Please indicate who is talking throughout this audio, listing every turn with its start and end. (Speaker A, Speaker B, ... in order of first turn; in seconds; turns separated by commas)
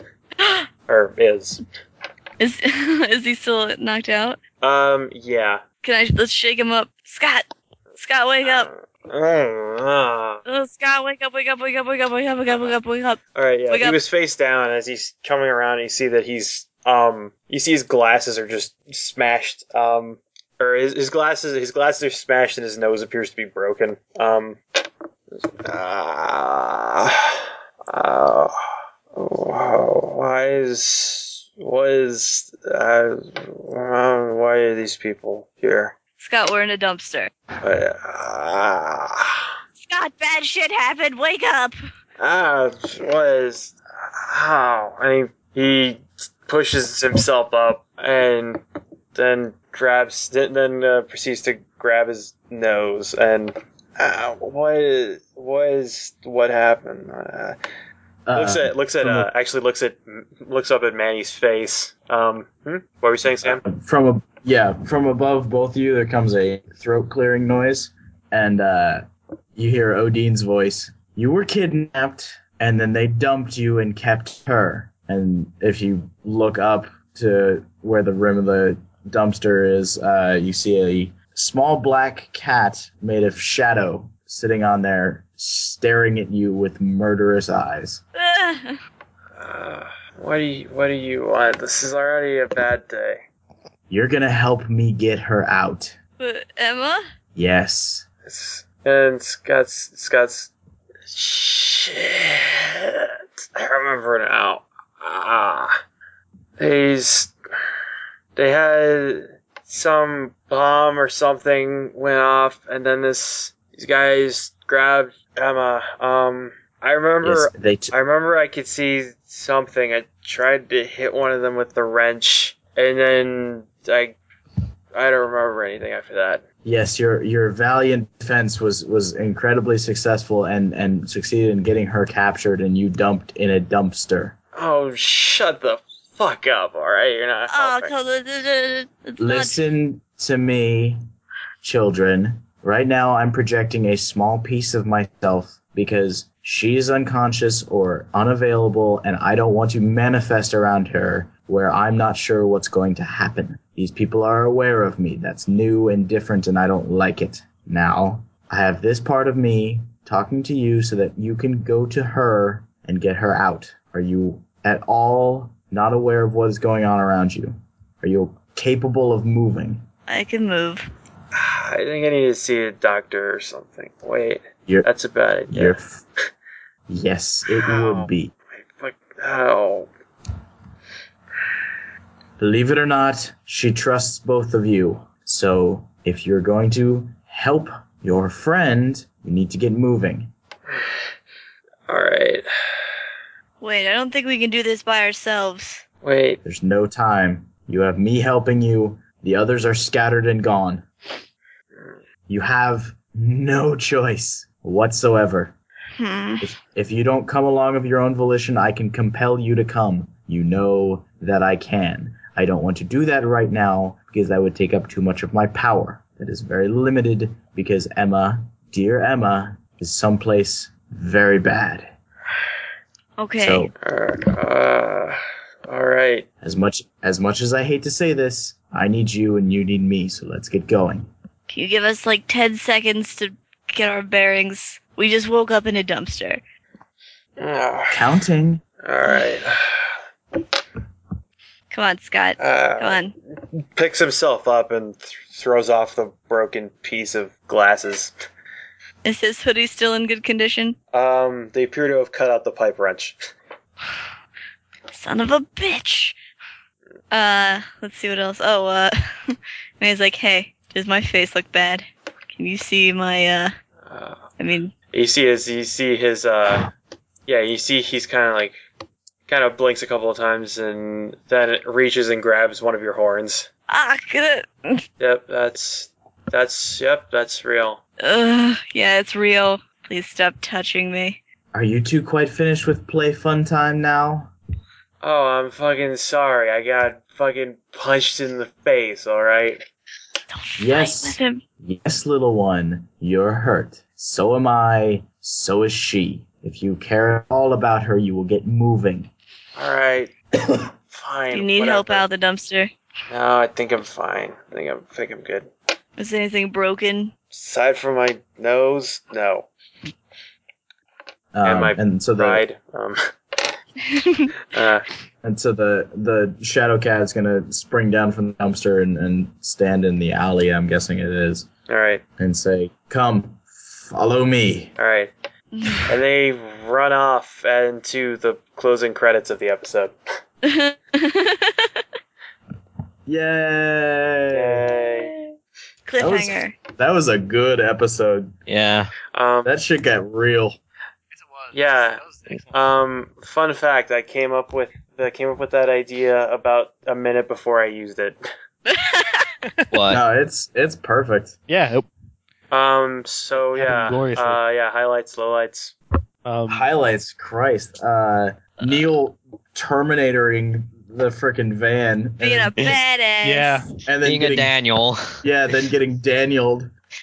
Speaker A: 0.4-0.7, Speaker B: 0.9-1.6, Speaker A: 2.4-4.4, Speaker B: 4.6-5.6, Speaker A: 5.8-7.5, Speaker A: 8.0-8.7, Speaker B: 8.4-10.4, Speaker A: 10.4-14.0, Speaker B: 13.3-24.6, Speaker B: 25.3-28.5, Speaker B: 29.1-35.9, Speaker A: 36.2-37.3, Speaker B: 37.6-39.5, Speaker A: 39.8-41.7, Speaker B: 42.2-48.6, Speaker B: 49.1-57.5, Speaker C: 58.2-59.3, Speaker B: 58.3-63.6, Speaker C: 63.4-88.0, Speaker A: 88.2-88.8, Speaker B: 89.4-93.2, Speaker C: 93.9-96.0, Speaker A: 96.2-97.0, Speaker C: 97.3-98.0, Speaker B: 98.2-100.5, Speaker B: 101.1-105.8, Speaker B: 106.6-107.3, Speaker B: 108.3-124.2, Speaker C: 117.2-117.9, Speaker B: 124.9-126.4, Speaker C: 126.6-134.3, Speaker B: 134.6-137.9, Speaker A: 137.5-139.6, Speaker C: 139.2-141.0, Speaker C: 141.6-169.8, Speaker A: 170.1-170.9, Speaker B: 171.3-175.8, Speaker C: 175.5-176.0, Speaker C: 176.9-178.3, Speaker B: 177.5-179.9, Speaker C: 182.4-190.3, Speaker B: 191.9-192.4, Speaker A: 193.6-195.8, Speaker B: 196.0-196.4, Speaker C: 196.4-200.8, Speaker C: 202.3-205.5, Speaker A: 206.0-206.4, Speaker C: 206.4-221.9, Speaker A: 223.2-223.7, Speaker C: 223.4-223.7, Speaker B: 223.8-226.2, Speaker C: 226.4-231.1, Speaker A: 231.5-236.4, Speaker B: 237.4-238.0, Speaker C: 237.9-238.6, Speaker B: 238.8-239.9, Speaker A: 241.7-243.1, Speaker B: 242.4-243.0, Speaker B: 243.7-248.1, Speaker A: 249.0-250.8, Speaker B: 250.9-253.2, Speaker A: 254.9-256.2, Speaker A: 257.1-263.5, Speaker B: 263.9-264.2, Speaker A: 264.4-264.7, Speaker B: 264.9-266.7, Speaker B: 267.3-268.6, Speaker B: 269.3-273.5, Speaker A: 273.7-274.8, Speaker B: 275.0-277.8, Speaker A: 278.0-281.2, Speaker C: 281.5-284.3, Speaker B: 285.0-289.6, Speaker A: 290.3-291.4, Speaker C: 290.6-299.1, Speaker B: 299.6-300.1, Speaker B: 300.9-302.1, Speaker A: 301.3-302.7, Speaker B: 303.1-305.5, Speaker A: 306.0-307.1, Speaker B: 307.3-309.5, Speaker C: 311.3-312.4, Speaker B: 311.4-313.1, Speaker A: 313.9-314.3, Speaker B: 314.5-314.9, Speaker C: 315.2-321.5, Speaker B: 321.7-322.0, Speaker C: 322.2-324.7, Speaker B: 324.8-325.1, Speaker A: 325.5-325.8, Speaker B: 325.9-329.9, Speaker A: 330.4-331.8, Speaker C: 333.1-334.7, Speaker B: 334.3-335.1, Speaker A: 335.9-336.6, Speaker C: 336.0-338.3, Speaker D: 338.5-338.9, Speaker B: 339.1-339.5, Speaker C: 339.4-340.6, Speaker B: 341.5-348.2, Speaker A: 348.7-349.3, Speaker D: 349.7-350.0, Speaker C: 349.9-351.4, Speaker E: 351.5-351.9, Speaker B: 352.5-355.7, Speaker E: 353.5-354.4, Speaker E: 356.2-356.6, Speaker C: 356.5-362.8, Speaker A: 362.2-363.6, Speaker E: 363.2-363.7, Speaker C: 363.8-364.5, Speaker D: 364.0-365.2, Speaker C: 365.2-366.7